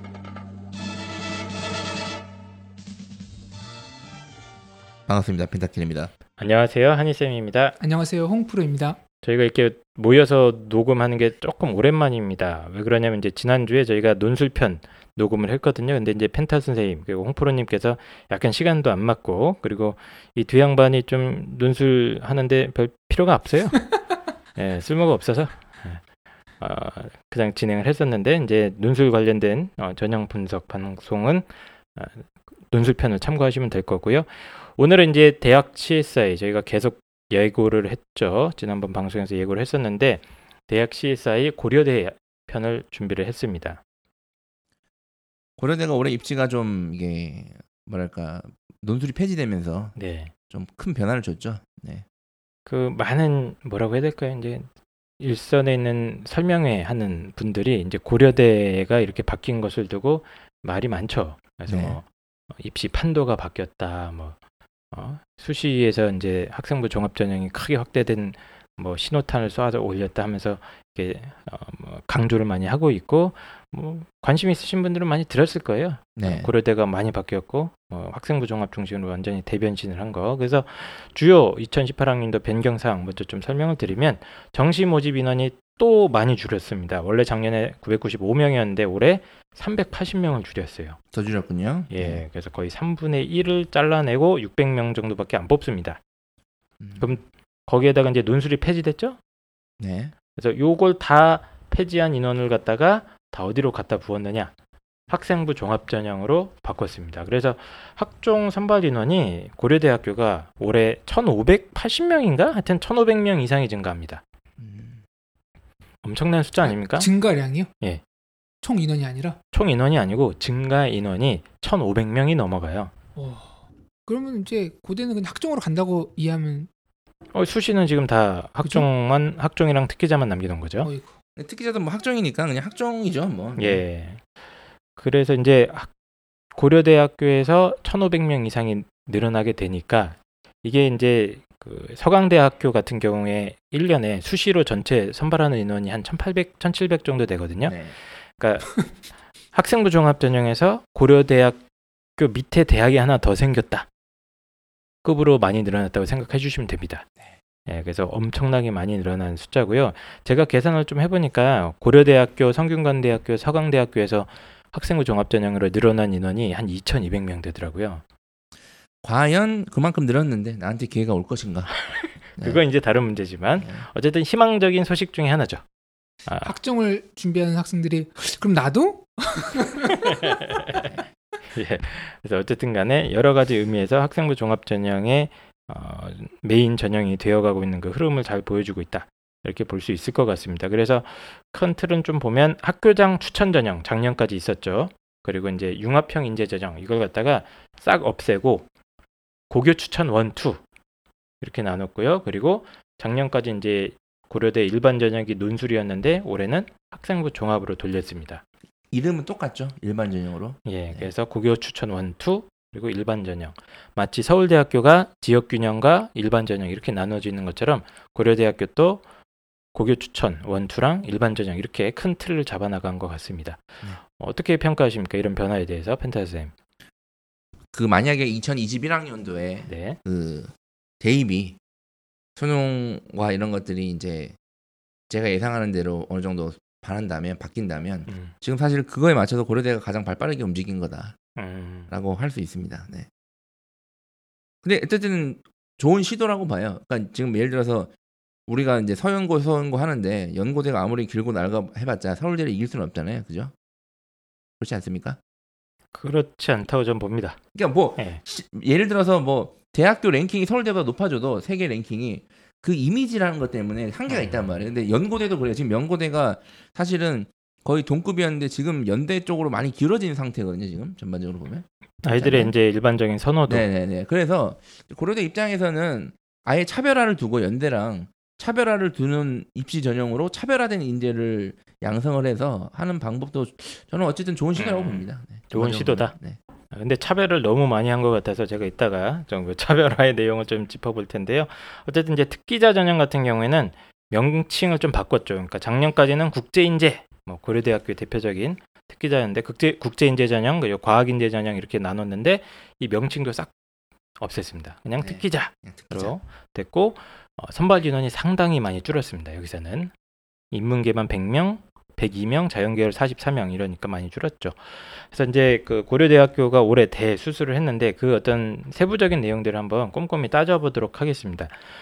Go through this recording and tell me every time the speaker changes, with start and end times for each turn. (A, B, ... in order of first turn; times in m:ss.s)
0:05.1-0:06.1 A
0:06.4-0:07.8 B
0:07.8-0:09.0 C
0:09.2-0:23.9 B
0:24.6-0:26.0 B
0:26.6-0:43.8 B
0:45.6-0:50.0 A
0:50.0-0:50.3 B
0:50.5-0:52.0 A
0:52.7-0:54.7 B
0:55.2-1:02.1 B
1:01.7-1:02.0 A
1:02.6-1:04.4 B
1:04.9-1:31.0 B
1:16.2-1:16.5 A
1:31.1-1:32.2 A
1:31.9-1:36.0 B
1:36.8-1:37.2 A
1:37.0-1:39.2 B
1:39.8-1:40.1 A
1:40.4-1:44.5 B
1:45.1-1:54.2 B
1:54.6-1:55.0 A
1:56.0-1:57.1 B
1:56.6-1:57.7 C
1:58.6-1:59.4 C
1:59.5-2:02.9 B
2:03.2-2:06.7 C
2:07.3-2:10.9 B
2:10.8-2:11.1 C
2:11.4-2:13.8 A
2:13.6-2:14.2 B
2:15.0-2:15.9 B
2:16.6-2:28.8 B
2:27.6-2:28.0 A
2:29.5-2:31.6 B
2:32.2-2:33.9 B
2:35.0-2:37.1 B
2:37.7-2:48.0 B
2:49.0-2:51.7 A
2:51.9-2:55.6 B
2:53.6-2:53.9 A
2:56.3-2:56.5 B
2:56.4-3:00.0 C
3:00.0-3:00.9 B
3:01.5-3:18.7 B
3:19.5-3:20.6 B
3:21.4-3:28.4 B
3:28.9-3:31.1 A
3:30.6-3:39.0 B
3:39.7-3:46.5 B
3:47.7-3:51.6 A
3:49.7-3:50.0 B
3:52.4-3:54.4 A
3:55.1-4:01.2 A
3:58.1-3:58.3 B
4:01.4-4:01.9 B
4:01.9-4:03.1 A
4:04.6-4:07.9 A
4:08.5-4:13.5 A
4:14.6-4:15.2 A
4:15.9-4:17.4 B
4:17.6-4:32.5 A
4:24.1-4:24.4 B
4:32.0-4:33.7 B
4:33.5-4:46.4 A
4:44.6-4:46.1 B
4:46.7-5:03.5 B
5:04.2-5:09.9 B
5:05.0-5:06.2 A
5:10.5-5:21.6 B